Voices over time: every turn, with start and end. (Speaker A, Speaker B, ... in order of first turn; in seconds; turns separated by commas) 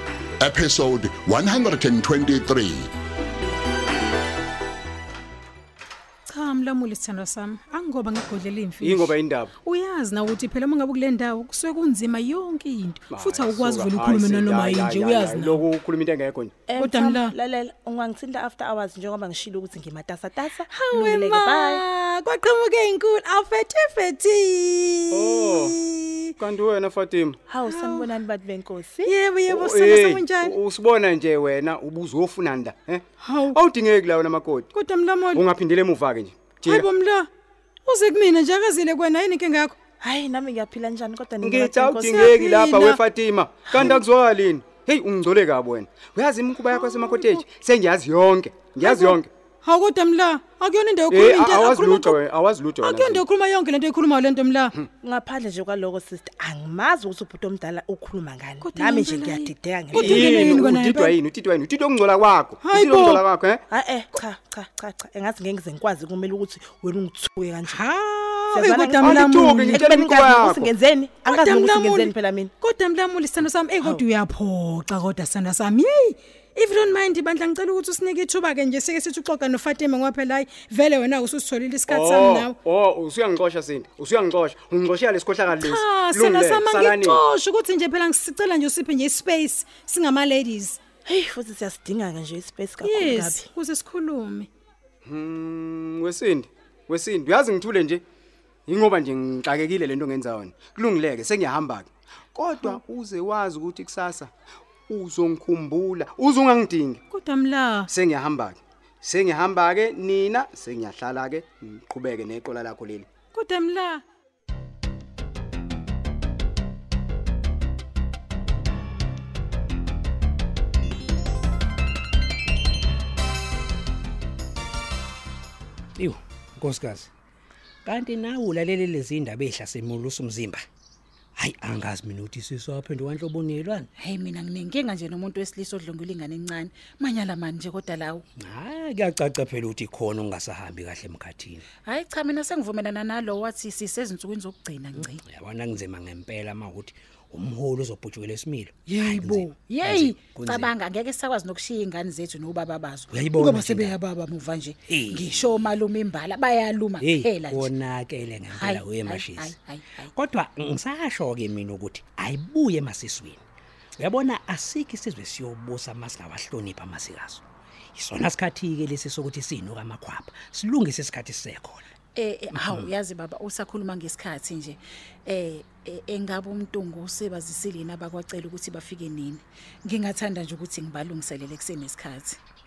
Speaker A: 0.4-2.9, Speaker B: 6.3-15.6, Speaker C: 8.8-9.5, Speaker C: 13.1-16.6, Speaker D: 16.7-21.8, Speaker B: 16.8-17.3, Speaker B: 20.7-26.3, Speaker C: 25.1-25.8, Speaker C: 26.4-27.4, Speaker D: 27.5-29.1, Speaker B: 27.6-28.1, Speaker B: 29.1-30.5, Speaker C: 29.5-34.7, Speaker B: 33.2-33.6, Speaker B: 34.7-35.4, Speaker C: 35.3-36.9, Speaker B: 36.6-37.3, Speaker B: 37.9-39.7, Speaker D: 40.0-42.3, Speaker C: 41.4-49.3, Speaker B: 42.1-43.0, Speaker D: 43.6-44.0, Speaker B: 46.7-47.4, Speaker B: 48.8-52.2, Speaker C: 51.1-53.2, Speaker B: 52.8-54.8, Speaker D: 54.9-60.1, Speaker B: 58.6-61.2, Speaker C: 59.9-63.6, Speaker B: 62.6-63.2, Speaker D: 63.7-67.8, Speaker B: 67.7-69.9, Speaker D: 68.5-72.5, Speaker C: 69.0-70.7, Speaker B: 71.3-82.5, Speaker C: 81.9-87.2, Speaker B: 85.5-90.8, Speaker D: 91.0-93.5, Speaker B: 92.8-94.5, Speaker C: 95.0-98.0, Speaker C: 98.7-104.3, Speaker C: 104.9-107.0, Speaker B: 107.1-107.9, Speaker C: 107.9-113.1, Speaker B: 113.3-114.0, Speaker E: 126.0-127.1, Speaker E: 127.8-130.6, Speaker E: 131.4-133.9, Speaker F: 134.0-138.2, Speaker E: 138.4-141.6, Speaker F: 141.8-145.2, Speaker E: 144.9-150.7, Speaker F: 148.9-157.7, Speaker E: 153.1-153.9, Speaker E: 154.9-155.5, Speaker E: 157.0-159.5, Speaker F: 158.5-160.1, Speaker E: 160.1-163.4, Speaker E: 164.0-167.4, Speaker E: 167.9-171.8, Speaker F: 172.1-182.4, Speaker E: 172.5-172.9